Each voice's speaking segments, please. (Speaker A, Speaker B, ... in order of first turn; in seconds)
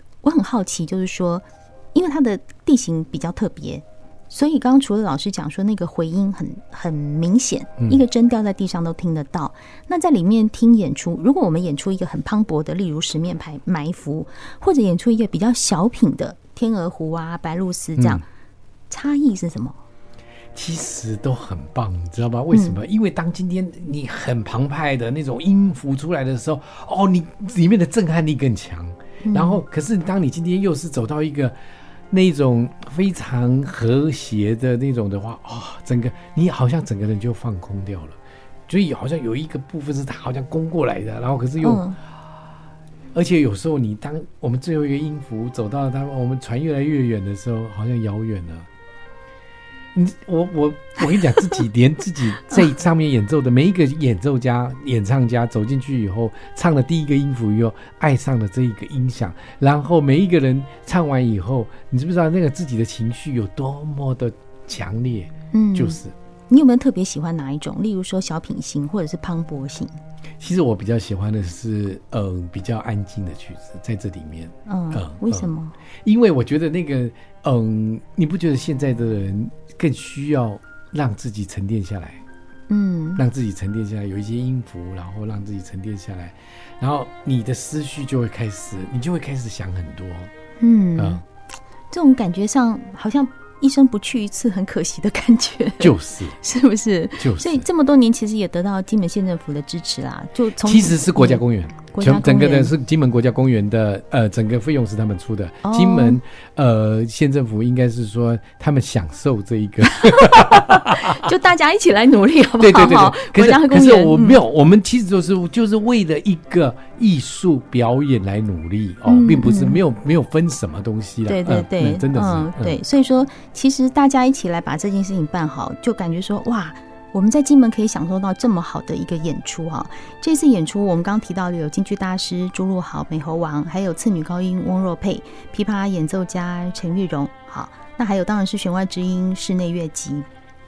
Speaker A: 0.2-18.2, 18.9-19.8, 22.5-22.8, 29.2-29.6, 41.6-42.0, 65.5-69.9, 74.7-75.8, 82.7-83.2, 90.6-91.2, 91.9-102.7, 105.6-106.2, 110.0-114.4, 119.0-119.8, 121.3-140.2
Speaker B: 18.0-18.2, 20.5-31.5, 32.1-38.2, 38.7-41.9, 43.1-48.7, 49.9-66.1, 70.4-75.5, 76.0-82.2, 83.2-90.3, 91.0-91.2, 95.8-96.4, 97.2-97.7, 100.6-111.3, 112.6-122.8